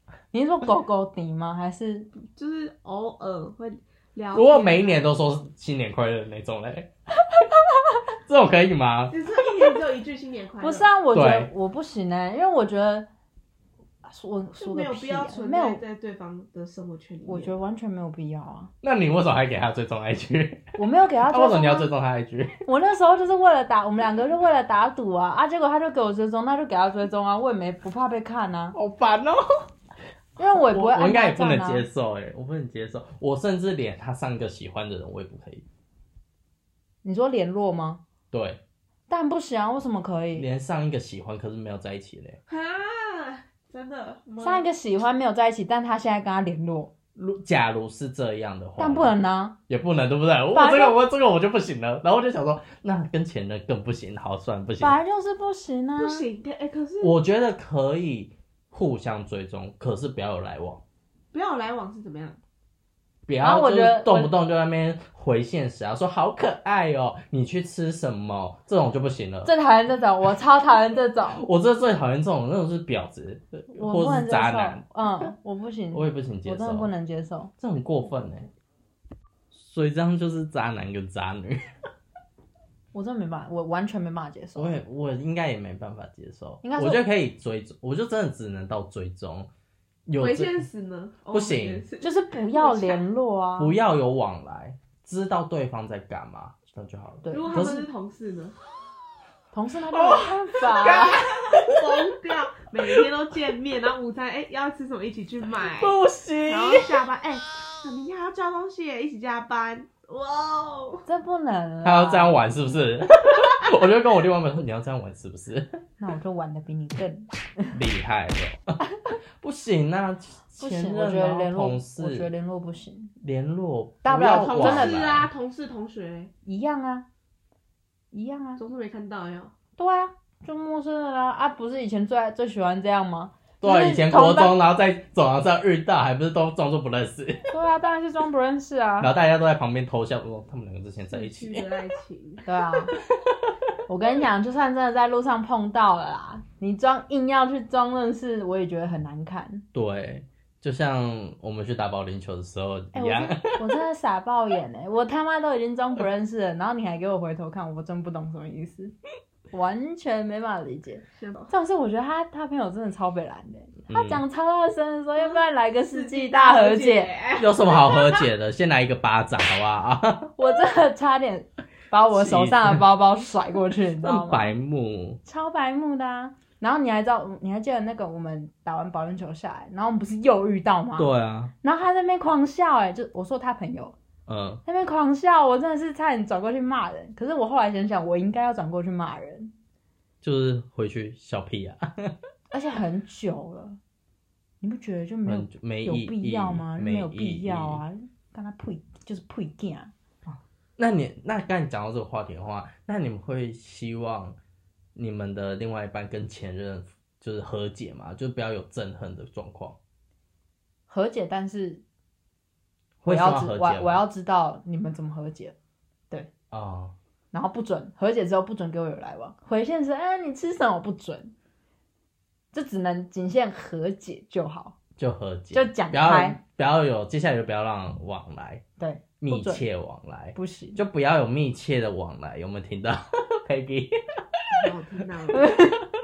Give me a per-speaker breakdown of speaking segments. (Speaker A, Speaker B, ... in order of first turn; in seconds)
Speaker A: 0.3-2.1, 10.6-13.1, 14.0-15.8, 17.3-18.7, 20.8-21.9, 22.7-28.8, 30.4-31.9, 37.0-38.0, 39.1-40.5, 44.4-46.9, 48.8-49.6, 50.5-51.0, 54.8-56.3, 63.4-64.3, 69.5-71.5, 73.7-77.5, 82.9-84.8, 86.6-87.0, 92.0-93.8, 97.2-97.8, 99.5-101.2, 111.1-112.5, 116.0-117.8, 120.6-123.1, 124.0-125.0, 126.5-127.1, 128.1-128.6, 129.8-134.6, 137.5-139.1, 142.5-142.9, 143.9-149.7, 152.9-158.9, 159.5-167.1, 170.4-174.5, 175.2-184.0, 184.7-189.5, 192.5-193.8, 194.6-199.9, 210.9-211.8, 213.1-215.6, 217.3-221.3, 222.5-224.8, 225.5-226.4, 228.8-229.6, 230.3-230.8, 235.3-235.8
Speaker B: 2.2-5.1, 9.1-10.9, 14.6-17.6, 42.5-44.7, 56.0-57.1, 61.3-62.4, 90.2-93.0, 97.3-98.6, 100.7-106.0, 106.5-111.1, 124.2-126.3, 128.6-129.5, 141.1-142.5, 161.2-161.5, 165.2-168.3, 234.5-235.5
Speaker C: 4.3-6.9, 8.2-9.2, 11.1-11.5, 18.8-20.7, 21.3-22.6, 28.7-29.7, 30.5-35.6, 38.3-38.6, 40.4-42.4, 47.2-49.1, 49.7-55.0, 57.0-60.8, 63.3-69.5, 71.3-74.8, 75.9-76.9, 77.6-78.5, 79.5-81.7, 84.6-89.5, 90.1-90.7, 91.3-91.9, 93.6-97.9, 99.9-102.1, 105.6-107.0, 111.8-115.8, 117.7-118.8, 119.4-122.3, 123.2-125.3, 133.6-137.5, 139.0-141.7, 149.7-153.8, 163.9-164.2, 167.4-170.3, 172.1-172.8, 174.0-175.2, 181.0-181.5, 184.3-184.6, 190.2-192.2, 195.2-197.8, 200.8-204.4, 204.9-209.8, 213.0-214.0, 216.5-216.9, 225.0-228.6, 229.2-234.7